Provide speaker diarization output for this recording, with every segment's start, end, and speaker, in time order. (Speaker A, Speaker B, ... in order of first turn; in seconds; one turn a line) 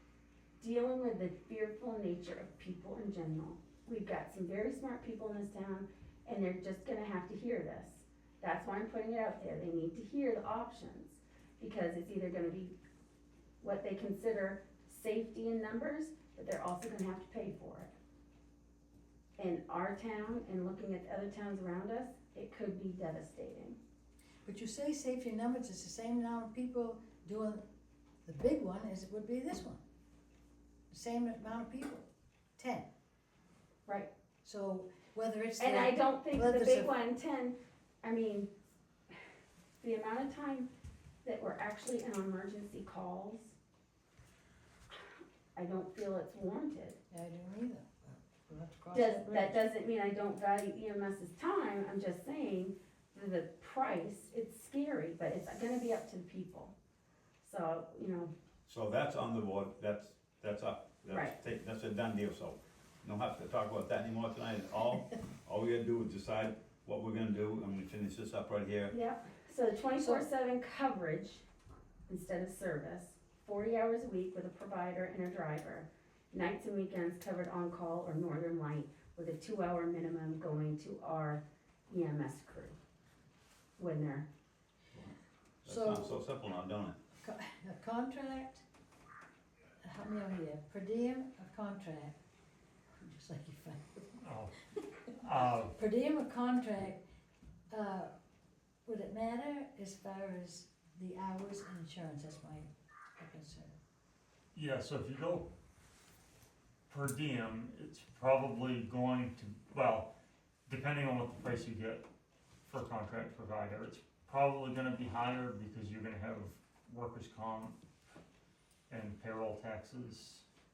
Speaker A: 0.6-12.7
Speaker A: 13.6-17.9
Speaker A: 19.4-23.8
Speaker B: 24.4-27.6
Speaker B: 28.2-29.8
Speaker B: 30.9-32.9
Speaker B: 34.4-36.9
Speaker A: 35.6-38.5
Speaker A: 39.8-40.7
Speaker A: 41.2-43.5
Speaker A: 45.5-47.0
Speaker B: 47.1-49.7
Speaker A: 48.9-56.7
Speaker A: 57.4-58.3
Speaker C: 58.7-68.9
Speaker A: 61.1-61.3
Speaker A: 68.9-71.4
Speaker B: 69.9-70.2
Speaker A: 72.1-82.8
Speaker A: 83.8-84.3
Speaker C: 84.9-87.0
Speaker B: 85.7-86.1
Speaker B: 87.2-88.6
Speaker B: 89.8-92.2
Speaker B: 93.0-94.2
Speaker D: 94.2-94.6
Speaker B: 94.8-95.1
Speaker D: 95.1-95.7
Speaker B: 95.7-97.0
Speaker B: 97.7-98.1
Speaker B: 98.8-103.8
Speaker D: 104.5-105.5
Speaker D: 106.9-110.1
Speaker D: 110.7-112.0
Speaker D: 112.7-117.8
Speaker D: 118.9-120.4